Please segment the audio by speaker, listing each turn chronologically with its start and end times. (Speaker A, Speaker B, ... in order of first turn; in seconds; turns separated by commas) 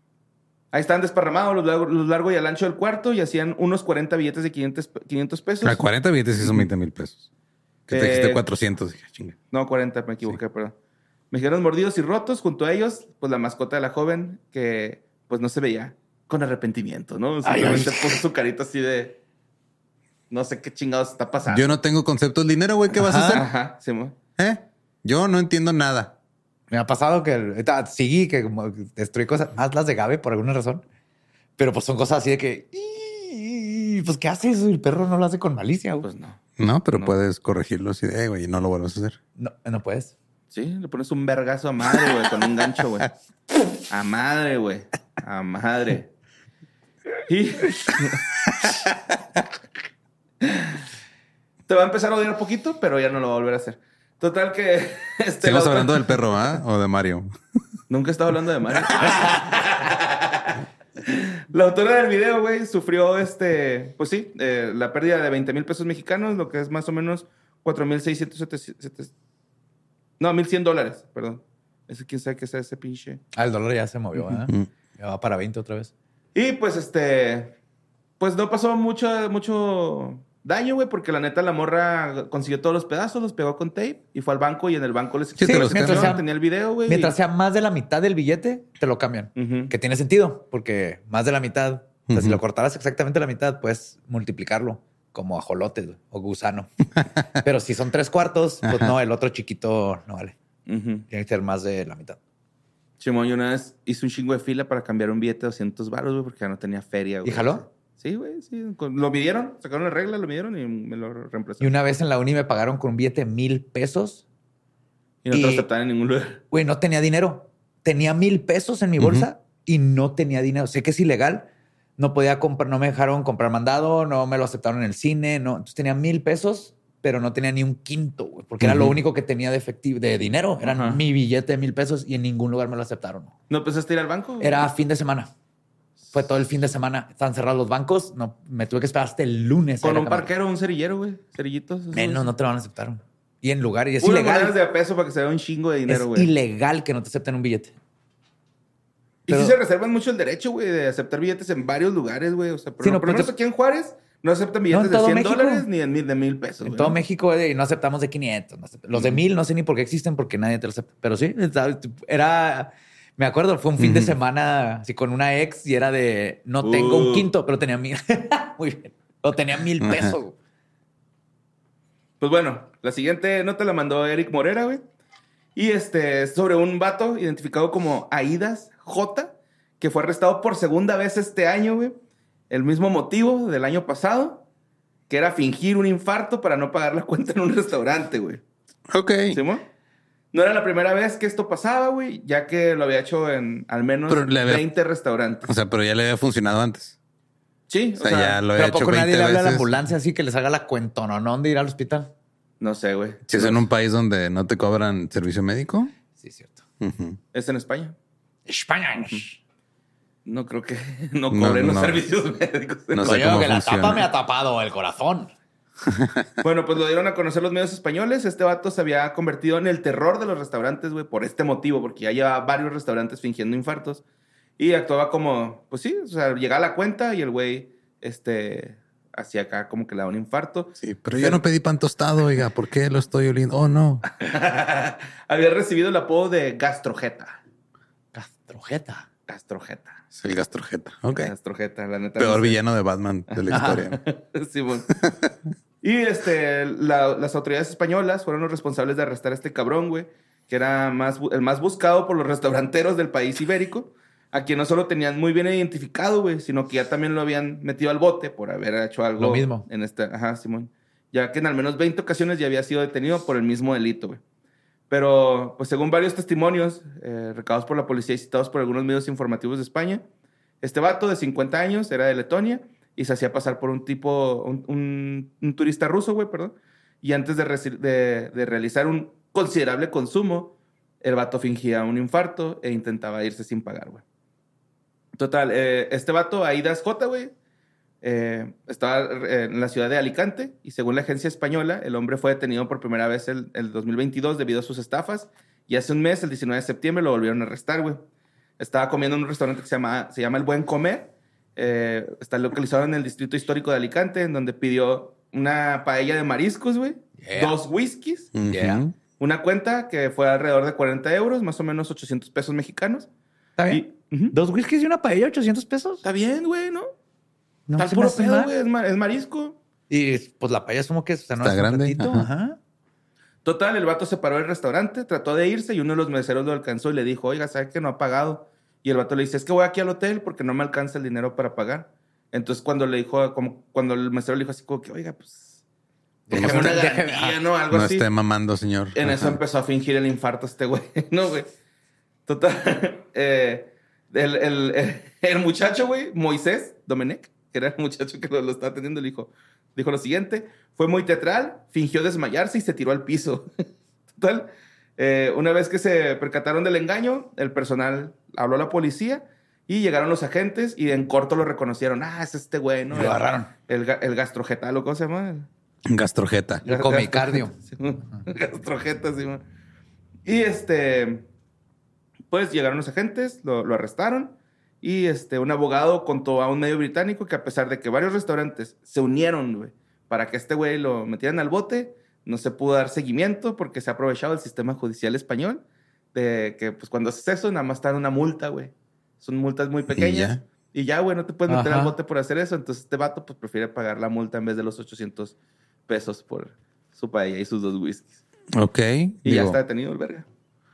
Speaker A: 0.7-5.8, Speaker B: 5.6-7.3, Speaker B: 7.9-9.4, Speaker A: 7.9-8.4, Speaker A: 9.5-10.8, Speaker A: 11.3-19.2, Speaker C: 17.4-18.2, Speaker A: 20.3-21.7, Speaker B: 21.5-23.5, Speaker C: 23.0-23.4, Speaker A: 23.3-24.2, Speaker B: 24.4-26.1, Speaker C: 26.7-30.8, Speaker C: 31.6-36.1, Speaker A: 36.0-37.1, Speaker B: 36.6-39.2, Speaker C: 39.4-40.1, Speaker A: 40.5-43.1, Speaker A: 43.9-46.1, Speaker A: 47.3-48.3, Speaker A: 51.7-56.0, Speaker B: 55.4-57.3, Speaker A: 57.9-69.1, Speaker B: 58.9-59.2, Speaker A: 70.2-73.2, Speaker C: 73.3-75.9, Speaker A: 76.3-77.6, Speaker A: 78.2-87.2, Speaker B: 85.4-86.2, Speaker C: 85.4-86.3, Speaker C: 86.9-96.7, Speaker A: 89.4-89.7, Speaker B: 92.1-92.4, Speaker C: 97.4-100.3, Speaker B: 98.7-99.0, Speaker A: 100.7-101.1, Speaker C: 101.1-102.2, Speaker A: 103.0-111.7, Speaker C: 107.2-107.6, Speaker C: 111.6-114.2, Speaker A: 115.2-116.4, Speaker C: 115.3-115.7, Speaker C: 116.5-133.3, Speaker B: 119.0-119.3, Speaker B: 128.6-129.0, Speaker A: 130.6-131.0, Speaker A: 133.5-134.7, Speaker C: 134.4-135.3, Speaker C: 136.1-140.3, Speaker A: 139.8-142.3, Speaker C: 141.9-144.6, Speaker A: 144.0-146.3, Speaker C: 145.9-147.7, Speaker A: 149.3-157.0, Speaker C: 149.3-149.6, Speaker C: 152.8-153.3, Speaker C: 154.7-155.7, Speaker C: 156.6-170.4, Speaker A: 158.9-159.2, Speaker B: 163.8-164.2, Speaker A: 166.6-167.3, Speaker B: 169.8-170.2, Speaker A: 172.2-174.8, Speaker A: 175.6-182.0, Speaker A: 182.5-184.4, Speaker A: 185.1-188.4, Speaker B: 188.9-189.4, Speaker A: 189.3-189.6, Speaker A: 190.3-195.5, Speaker B: 194.1-194.7, Speaker B: 195.4-197.0, Speaker A: 197.7-198.4, Speaker B: 198.0-199.7, Speaker C: 198.6-202.1, Speaker A: 202.6-203.6, Speaker B: 203.3-205.9, Speaker C: 206.2-206.6, Speaker B: 206.8-207.2, Speaker A: 207.3-207.9, Speaker C: 208.5-209.4, Speaker A: 210.2-213.3, Speaker B: 211.3-212.1, Speaker B: 212.9-214.1, Speaker C: 213.0-215.3, Speaker B: 215.9-216.3, Speaker A: 216.4-224.0, Speaker A: 224.6-231.4, Speaker B: 230.8-234.0, Speaker A: 234.1-237.4, Speaker C: 238.1-239.1, Speaker A: 239.3-240.0, Speaker B: 240.1-241.3, Speaker A: 241.2-242.6, Speaker B: 242.2-244.0, Speaker A: 243.3-244.9, Speaker C: 243.5-243.8, Speaker A: 245.8-264.2, Speaker C: 259.2-259.7, Speaker A: 264.9-270.1, Speaker A: 270.6-284.0, Speaker A: 285.2-287.3, Speaker A: 288.0-298.0, Speaker A: 298.6-308.3, Speaker C: 307.2-307.6, Speaker B: 308.4-309.0, Speaker C: 308.5-308.8, Speaker A: 309.2-313.1, Speaker C: 313.6-316.0, Speaker A: 313.7-314.4, Speaker A: 316.0-316.9, Speaker C: 317.7-318.5, Speaker A: 317.8-319.6, Speaker C: 319.9-322.6, Speaker B: 321.4-322.3, Speaker A: 323.4-335.6, Speaker C: 336.3-337.4, Speaker A: 336.3-338.1, Speaker B: 336.3-336.8, Speaker B: 337.7-339.4, Speaker A: 338.9-341.5, Speaker A: 342.3-353.5, Speaker A: 354.1-365.5, Speaker C: 362.9-363.5, Speaker B: 365.9-366.6, Speaker C: 366.6-367.6, Speaker A: 366.6-369.4, Speaker A: 370.2-371.3, Speaker A: 372.3-385.6, Speaker A: 386.1-395.4, Speaker B: 389.9-390.4, Speaker C: 391.5-392.0, Speaker A: 395.9-398.2, Speaker B: 398.6-399.6, Speaker A: 399.2-400.3